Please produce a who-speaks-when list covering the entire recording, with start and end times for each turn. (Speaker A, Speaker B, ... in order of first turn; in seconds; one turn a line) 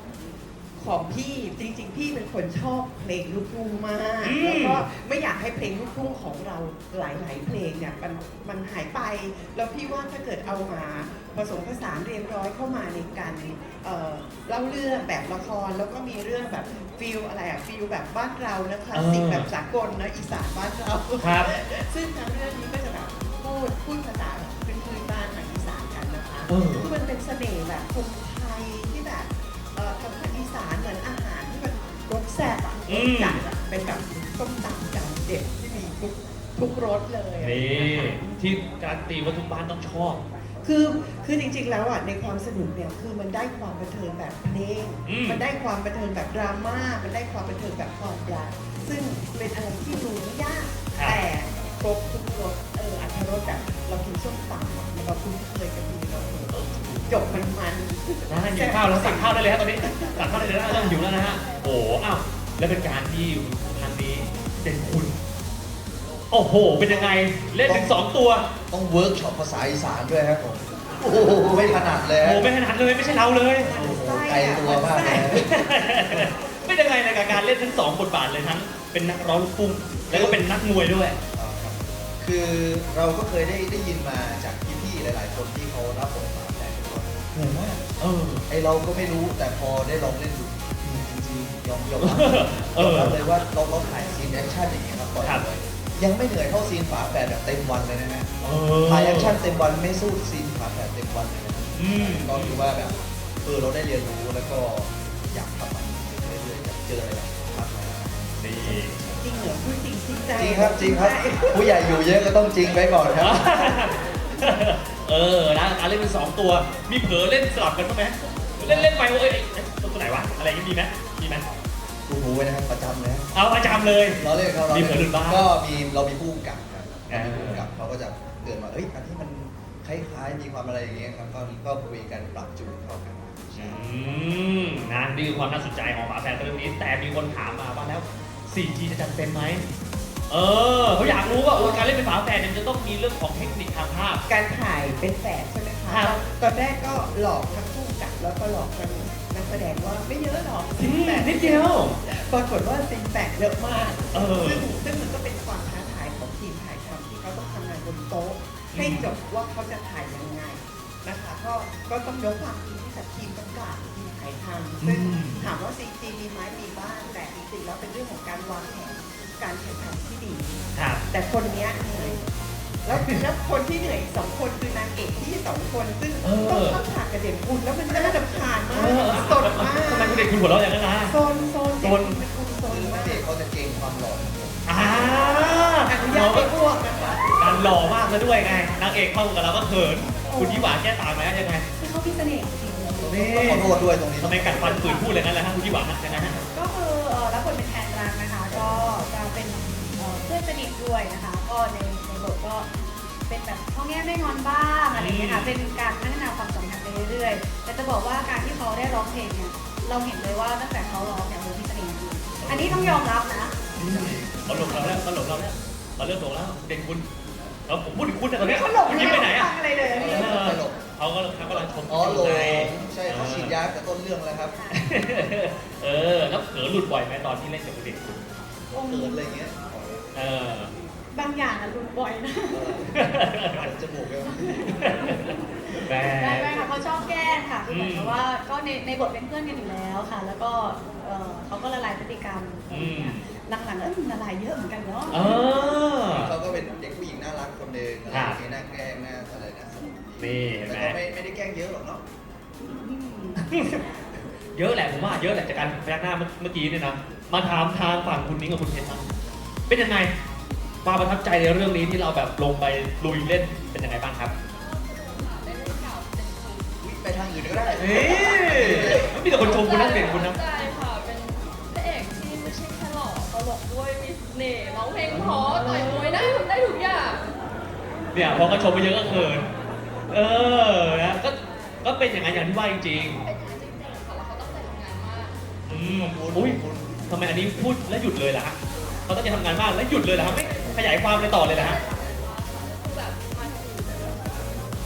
Speaker A: 0.8-38.4
Speaker B: 4.2-4.8
Speaker B: 18.9-19.5
Speaker B: 21.2-21.5
Speaker B: 26.5-26.9
Speaker B: 32.9-33.4
Speaker B: 37.4-40.2
Speaker A: 40.6-61.0
Speaker B: 45.0-45.4
Speaker B: 50.9-51.2
Speaker B: 56.5-57.4
Speaker B: 58.3-65.1
Speaker B: 66.3-68.5
Speaker C: 66.9-68.0
Speaker C: 68.7-72.5
Speaker B: 72.2-74.0
Speaker A: 73.7-75.4
Speaker C: 73.7-75.5
Speaker B: 75.1-81.2
Speaker C: 80.1-80.4
Speaker C: 81.3-87.8
Speaker B: 88.0-88.5
Speaker C: 88.5-98.3
Speaker B: 92.0-93.2
Speaker B: 98.4-99.4
Speaker C: 98.8-108.3
Speaker B: 101.7-102.6
Speaker B: 108.4-109.0
Speaker A: 108.6-111.8
Speaker C: 110.4-113.7
Speaker B: 113.2-121.5
Speaker C: 118.6-118.9
Speaker C: 122.1-133.8
Speaker B: 123.3-125.5
Speaker B: 127.1-127.7
Speaker B: 133.6-139.6
Speaker B: 140.3-144.2
Speaker A: 141.5-141.9
Speaker A: 144.3-172.2
Speaker B: 145.9-146.2
Speaker B: 150.8-152.0
Speaker B: 154.1-154.7
Speaker B: 158.7-159.1
Speaker B: 164.8-165.5
Speaker B: 170.7-171.0
Speaker A: 172.8-180.4
Speaker B: 176.2-176.8
Speaker B: 178.7-181.2
Speaker A: 181.1-183.2
Speaker B: 181.8-182.2
Speaker C: 182.7-184.6
Speaker B: 184.7-186.5
Speaker A: 184.9-185.3
Speaker A: 185.8-187.6
Speaker B: 187.4-191.7
Speaker D: 190.2-190.8
Speaker D: 191.8-194.0
Speaker C: 193.0-194.9
Speaker B: 193.1-193.6
Speaker B: 194.2-196.4
Speaker D: 194.6-195.8
Speaker D: 196.5-202.7
Speaker D: 203.3-213.5
Speaker B: 204.9-205.6
Speaker B: 212.4-213.1
Speaker B: 213.8-217.1
Speaker C: 213.8-214.7
Speaker B: 217.7-219.5
Speaker D: 218.4-220.6
Speaker C: 219.8-220.8
Speaker B: 220.1-223.6
Speaker C: 221.7-224.6
Speaker D: 224.5-224.8
Speaker B: 224.7-228.2
Speaker D: 228.7-229.4
Speaker C: 228.8-230.0
Speaker B: 230.1-230.7
Speaker D: 231.1-232.9
Speaker C: 232.5-234.9
Speaker B: 232.9-233.7
Speaker D: 234.2-245.8
Speaker B: 234.8-236.7
Speaker B: 237.7-238.2
Speaker B: 242.7-243.2
Speaker B: 245.1-246.3
Speaker C: 246.1-252.0
Speaker B: 248.1-248.4
Speaker B: 250.2-251.0
Speaker D: 252.6-253.4
Speaker B: 253.4-253.8
Speaker B: 254.5-259.1
Speaker B: 259.7-260.1
Speaker B: 260.8-264.3
Speaker E: 264.7-266.7
Speaker C: 266.8-269.2
Speaker B: 267.7-270.4
Speaker E: 268.1-277.2
Speaker B: 275.1-276.0
Speaker B: 278.1-279.5
Speaker B: 280.1-283.2
Speaker E: 283.1-285.4
Speaker B: 285.7-291.8
Speaker C: 285.7-287.0
Speaker E: 291.2-294.4